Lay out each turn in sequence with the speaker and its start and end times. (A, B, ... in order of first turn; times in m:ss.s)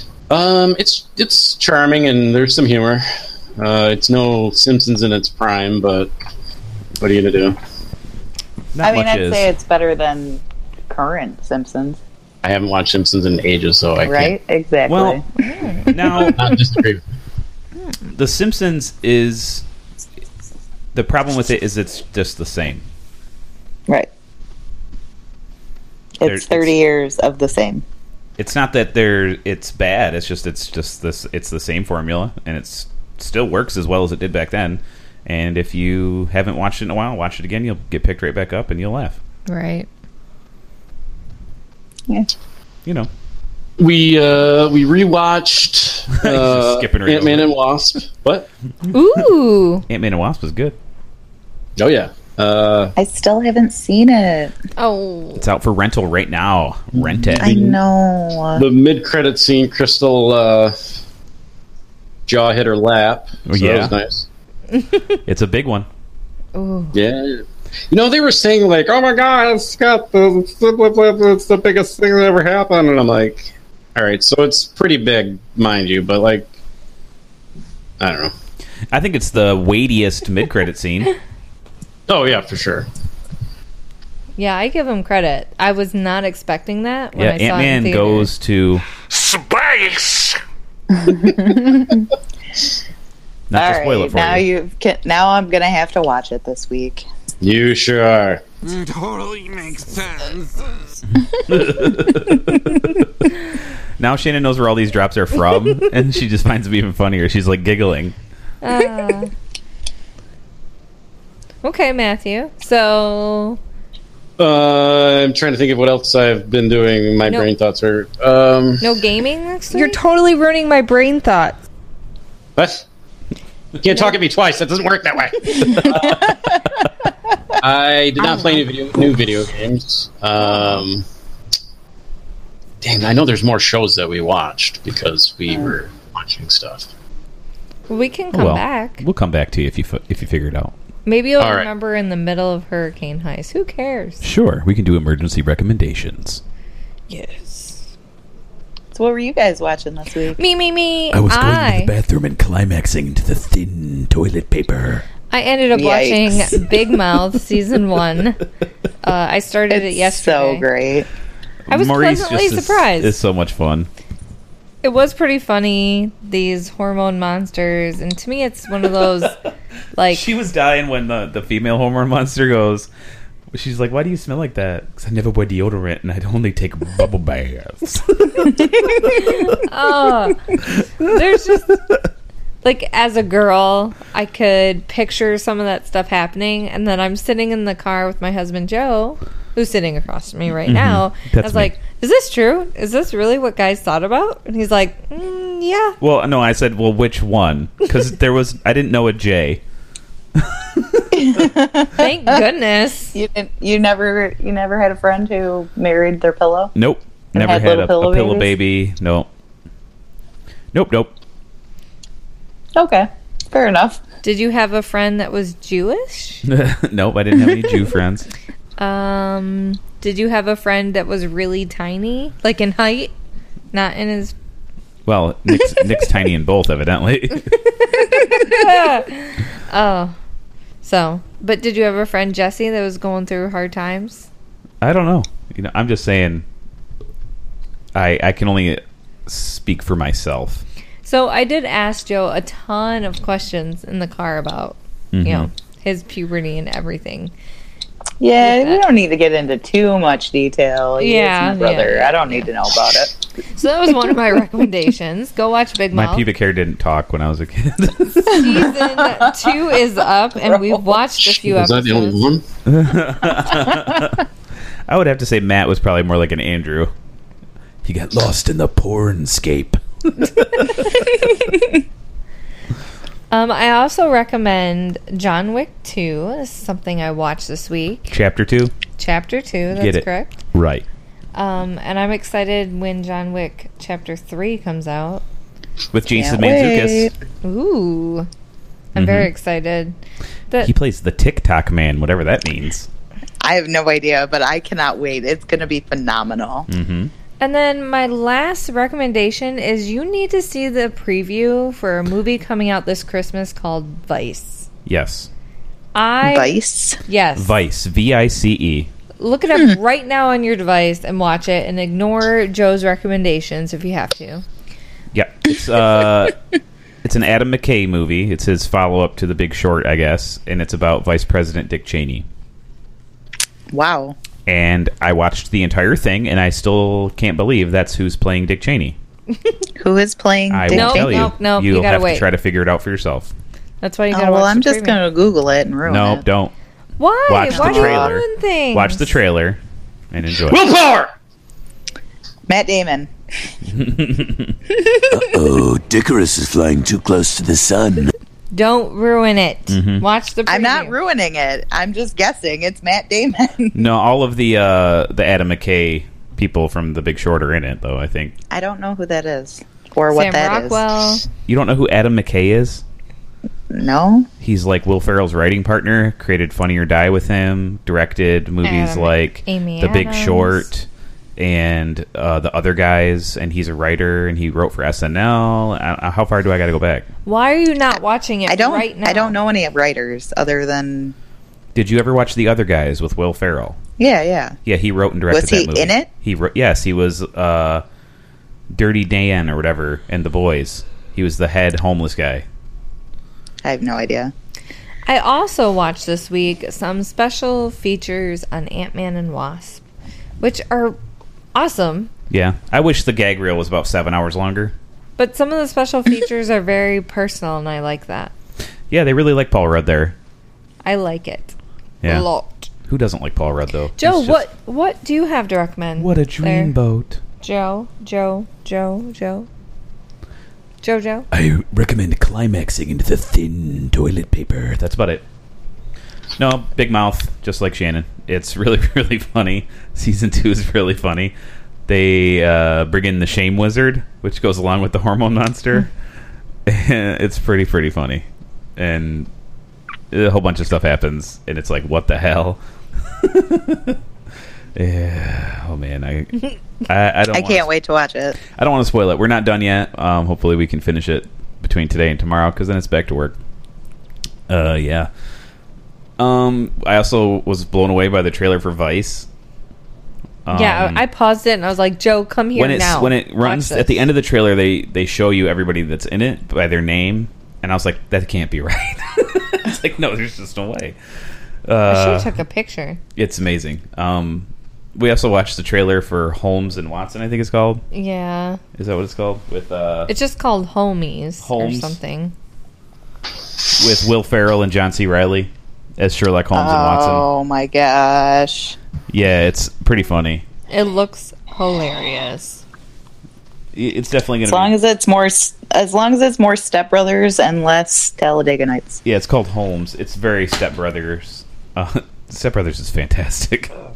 0:00.3-0:03.0 A
0:03.6-0:06.1 A
0:07.0-0:07.6 A
0:08.8-0:09.5 B
0:08.8-0:12.0 C
0:12.4-0:14.4 A
0:14.0-0:15.2 C
0:14.9-0:15.2 B
0:15.4-0:15.9 D
0:15.9-0:16.4 B
0:16.1-0:17.0 A
0:18.2-0:19.6 B
0:20.9-0:22.8 B
0:26.2-0:27.8 C
0:26.2-0:26.8 B
0:28.4-0:39.2 B
0:39.5-0:39.9 D
0:43.8-0:48.5 A
0:46.2-0:47.5 B
0:48.9-0:49.8 D
0:49.9-0:50.8 B
0:51.8-0:52.9 A
0:53.0-0:54.6 C
0:54.8-0:55.4 D
0:55.4-0:57.5 B
0:57.0-0:57.8 A
0:57.4-0:58.7 C
0:58.6-1:00.8 A
1:02.3-1:04.3 A
1:03.5-1:04.0 B
1:05.3-1:05.9 B
1:06.6-1:07.0 D
1:06.9-1:16.5 A
1:18.0-1:18.3 A
1:18.9-1:21.1 B
1:22.1-1:22.9 A
1:24.4-1:28.3 D
1:27.2-1:28.8 B
1:29.0-1:30.4 E
1:30.9-1:32.1 C
1:33.5-1:34.4 B
1:33.5-1:37.1 C
1:37.4-1:38.4 A
1:38.6-1:40.7 E
1:41.4-1:43.1 B
1:44.0-1:48.1 B
1:48.6-1:49.3 D
1:51.6-1:53.6 D
1:54.4-1:58.9 A
1:58.8-2:01.6 D
2:02.6-2:02.8 A
2:03.8-2:06.6 A
2:07.6-2:11.0 A
2:12.8-2:16.9 A
2:17.9-2:19.0 D
2:18.3-2:20.7 B
2:21.1-2:24.2 D
2:21.4-2:21.7 A
2:24.2-2:26.4 B
2:27.1-2:27.8 D
2:28.9-2:30.4 C
2:30.4-2:31.9 D
2:31.1-2:35.0 B
2:35.3-2:38.4 D
2:35.7-2:36.4 C
2:39.0-2:40.6 D
2:39.7-2:41.1 C
2:41.7-2:43.9 B
2:41.7-2:43.2 D
2:44.8-2:49.4 D
2:50.0-2:50.2 D
2:50.1-2:52.9 B
2:53.5-2:59.6 B
2:58.9-3:00.4 D
3:01.0-3:01.8 D
3:02.6-3:16.0 D
3:10.7-3:11.7 B
3:16.0-3:19.6 B
3:20.4-3:21.2 B
3:21.1-3:22.0 C
3:21.9-3:23.2 D
3:23.1-3:26.7 C
3:26.8-3:29.3 B
3:27.3-3:28.5 C
3:30.7-3:31.1 B
3:32.8-3:34.0 C
3:34.2-3:36.4 D
3:36.5-3:38.3 B
3:38.8-3:43.1 D
3:43.7-3:44.4 D
3:45.1-3:48.2 B
3:48.3-3:50.2 D
3:50.8-3:54.3 D
3:54.8-3:56.4 B
3:57.9-4:00.6 B
4:01.0-4:07.3 D
4:05.1-4:05.5 B
4:08.2-4:13.1 C
4:08.4-4:08.8 D
4:11.0-4:12.5 D
4:13.6-4:16.3 D
4:15.9-4:18.6 B
4:18.3-4:22.2 D
4:18.5-4:19.5 C
4:20.4-4:21.2 C
4:21.4-4:22.4 A
4:22.7-4:24.2 B
4:24.9-4:26.9 B
4:27.8-4:31.4 B
4:33.3-4:38.1 D
4:38.1-4:38.7 B
4:39.0-4:40.4 D
4:39.7-4:40.8 B
4:41.4-4:45.2 D
4:45.9-4:47.1 B
4:46.1-4:47.1 C
4:47.4-4:48.3 D
4:49.0-4:50.0 D
4:49.0-4:49.3 B
4:50.6-4:52.9 B
4:53.4-4:56.7 C
4:56.7-4:57.1 B
4:57.4-5:04.7 D
5:04.9-5:05.3 B
5:06.0-5:07.5 D
5:06.2-5:07.0 C
5:07.4-5:08.9 B
5:09.2-5:14.4 D
5:15.1-5:16.4 B
5:17.0-5:22.2 B
5:23.7-5:24.2 C
5:24.5-5:29.0 B
5:29.8-5:31.3 C
5:30.5-5:33.3 B
5:30.7-5:32.3 D
5:33.8-5:35.0 D
5:34.1-5:36.2 C
5:35.9-5:36.5 B
5:37.0-5:39.1 D
5:37.3-5:39.6 B
5:37.5-5:38.1 C
5:40.1-5:40.6 B
5:40.5-5:41.1 A
5:42.5-5:43.1 C
5:43.7-5:44.6 B
5:45.1-5:48.1 F
5:48.5-5:51.0 D
5:49.7-5:50.0 B
5:50.5-5:53.8 C
5:53.7-5:58.4 B
5:58.5-6:00.8 C
6:00.1-6:01.2 D
6:01.5-6:02.8 B
6:03.7-6:04.3 C
6:04.4-6:17.1 B
6:08.6-6:10.6 D
6:17.3-6:19.4 D
6:18.5-6:21.2 C
6:21.8-6:23.8 B
6:24.0-6:24.6 C
6:24.7-6:27.8 B
6:25.3-6:26.1 C
6:28.7-6:32.4 B
6:33.6-6:34.3 C
6:35.1-6:39.8 D
6:40.4-6:41.0 D
6:41.5-6:42.1 D
6:42.3-6:44.7 B
6:45.2-6:48.3 D
6:48.9-6:50.2 B
6:50.8-6:52.7 D
6:52.9-6:54.4 B
6:54.0-6:56.7 D
6:56.0-6:57.2 B
6:57.4-6:59.5 D
7:00.8-7:01.3 D
7:01.3-7:05.2 B
7:06.4-7:11.3 B
7:11.9-7:15.9 B
7:16.7-7:18.2 B
7:18.8-7:19.3 B
7:20.1-7:22.6 B
7:23.2-7:24.0 B
7:24.8-7:27.7 B
7:27.3-7:28.4 C
7:28.5-7:33.4 B
7:34.5-7:35.1 B
7:36.2-7:39.3 B
7:40.5-7:41.0 B
7:40.5-7:44.0 D
7:42.6-7:51.0 B
7:51.7-7:52.3 B
7:51.9-7:53.0 D
7:53.2-7:57.8 B
7:57.9-7:58.6 D
7:58.8-8:00.1 B
8:00.1-8:02.3 D
8:01.4-8:02.0 B
8:03.8-8:07.2 B
8:06.5-8:08.8 C
8:09.1-8:10.4 B
8:10.7-8:12.6 D
8:13.7-8:14.7 B
8:14.5-8:19.0 C
8:19.0-8:23.7 B